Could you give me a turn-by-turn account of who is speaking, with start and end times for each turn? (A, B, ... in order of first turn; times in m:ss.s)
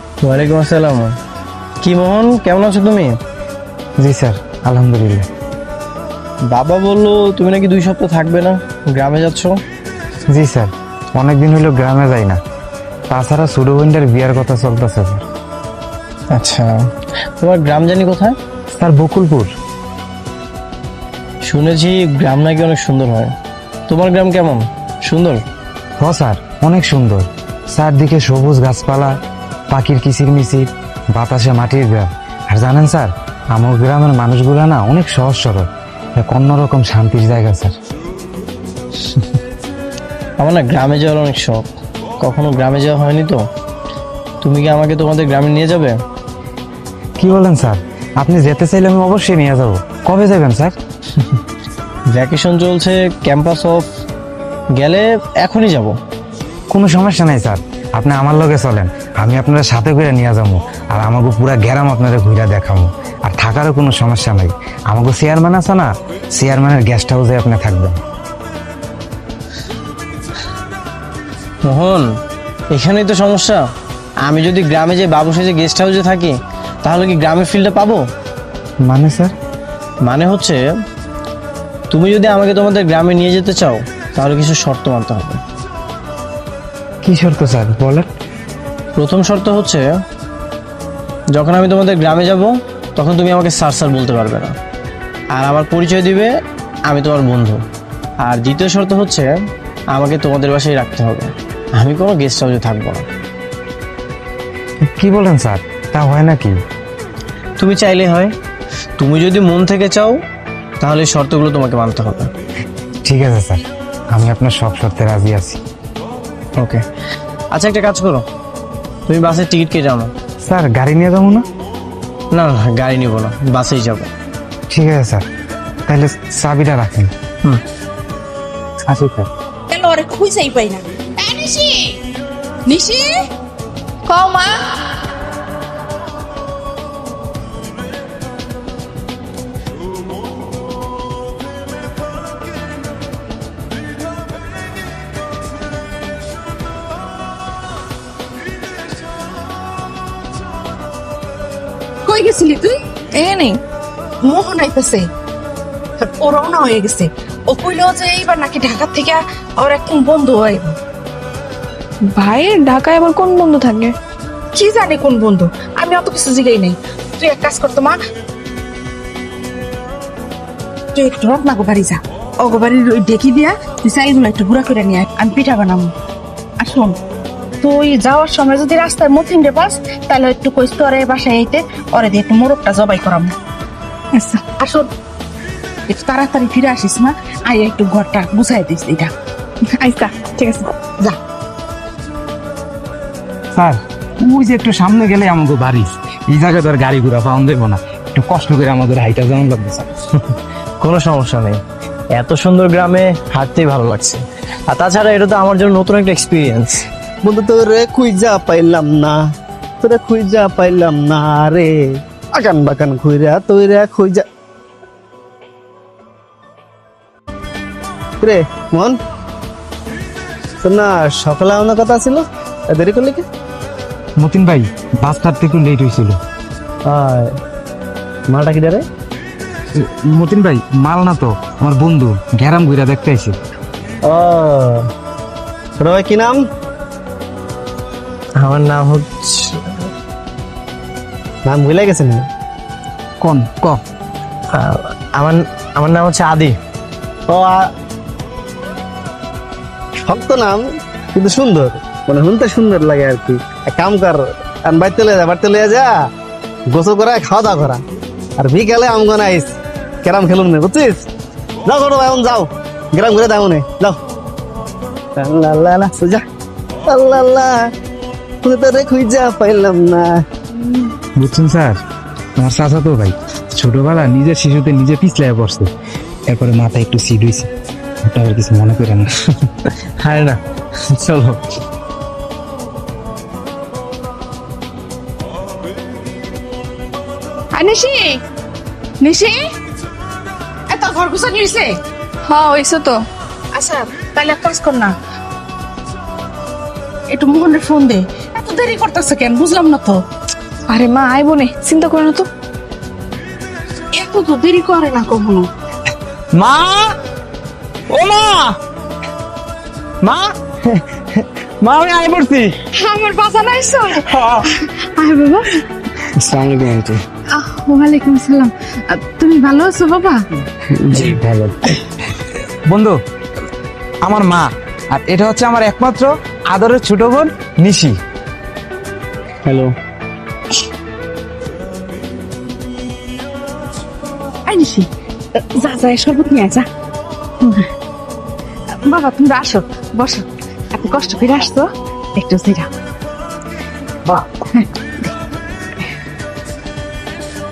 0:00.2-0:01.1 A
0:01.8-0:03.1 A
0:04.0-0:05.2 B
0:06.5-0:09.6 A
0:10.3-0:12.4 B
0:13.1-0:15.2 B
0:16.3-0:16.8 A
0:17.4-0:18.4 A
0:18.7-0:19.5 B
0:21.4-0:23.3 A
0:23.9-0:25.4 A
0:26.0-0:29.1 B
0:29.7-0:35.7 B
0:36.2-0:37.7 B
0:40.4-0:41.7 A
0:42.2-0:43.4 A
0:44.4-0:45.9 A
0:47.2-0:50.7 B
0:52.1-0:53.8 A
0:54.7-0:55.9 A
0:56.7-1:08.0 B
1:11.6-1:12.1 A
1:12.7-1:13.6 A
1:14.2-1:16.3 A
1:16.8-1:18.0 A
1:18.8-1:19.3 B
1:20.0-1:20.6 A
1:21.9-1:25.4 A
1:27.0-1:28.1 B
1:28.9-1:29.8 A
1:31.3-1:34.6 A
1:35.3-1:36.3 A
1:36.9-1:37.6 A
1:38.2-1:39.3 A
1:39.9-1:43.1 A
1:44.8-1:46.5 B
1:47.6-1:48.3 A
1:49.0-1:50.2 A
1:50.8-1:52.3 A
1:53.0-1:53.6 B
1:54.1-1:55.6 B
1:57.5-1:58.2 A
1:59.1-2:00.1 A
2:00.4-2:01.4 B
2:02.3-2:04.1 A
2:04.7-2:05.2 B
2:05.9-2:07.1 B
2:08.9-2:09.3 B
2:09.7-2:12.0 C
2:12.7-2:13.2 C
2:14.1-2:14.9 D
2:32.0-2:32.8 C
2:33.1-2:33.6 D
2:34.2-2:35.1 C
2:36.0-2:40.8 C
2:42.1-2:43.9 D
2:44.5-2:48.0 C
2:50.9-2:55.9 C
2:56.6-2:57.0 C
2:57.6-3:03.3 C
3:04.2-3:04.4 D
3:04.6-3:04.9 C
3:05.9-3:09.1 C
3:09.8-3:10.7 D
3:13.6-3:19.9 B
3:20.8-3:21.6 A
3:22.2-3:26.8 A
3:27.2-3:29.2 E
3:29.8-3:34.2 E
3:38.2-3:39.0 E
3:40.6-3:43.2 E
3:44.2-3:46.2 B
3:46.9-3:47.3 A
3:48.3-3:48.8 A
3:49.8-3:53.4 B
3:54.1-3:54.8 A
3:55.8-3:56.4 E
3:58.4-3:59.8 A
4:01.4-4:02.3 E
4:03.2-4:03.8 B
4:04.5-4:06.6 A
4:07.3-4:07.7 E
4:10.0-4:10.6 E
4:11.1-4:15.9 E
4:16.7-4:17.8 E
4:18.4-4:21.0 E
4:21.6-4:24.0 E
4:25.2-4:26.2 E
4:26.9-4:27.6 E
4:28.4-4:30.2 E
4:31.2-4:31.8 B
4:32.4-4:35.7 B
4:36.3-4:37.5 B
4:38.1-4:39.1 B
4:40.0-4:41.4 A
4:47.5-4:48.2 C
4:49.0-4:49.4 C
4:50.7-4:51.8 C
4:52.3-4:53.0 D
4:53.5-4:54.9 C
4:57.1-5:00.0 C
5:00.7-5:02.2 D
5:03.9-5:05.5 C
5:06.4-5:06.8 B
5:07.9-5:08.6 B
5:10.0-5:12.5 B
5:12.7-5:15.6 C
5:14.1-5:14.4 B
5:16.2-5:17.0 A
5:17.3-5:20.2 C
5:20.8-5:21.1 A
5:20.9-5:21.7 B
5:22.7-5:22.9 B
5:24.1-5:27.9 B
5:29.4-5:29.7 A
5:34.4-5:36.7 C
5:38.8-5:42.7 C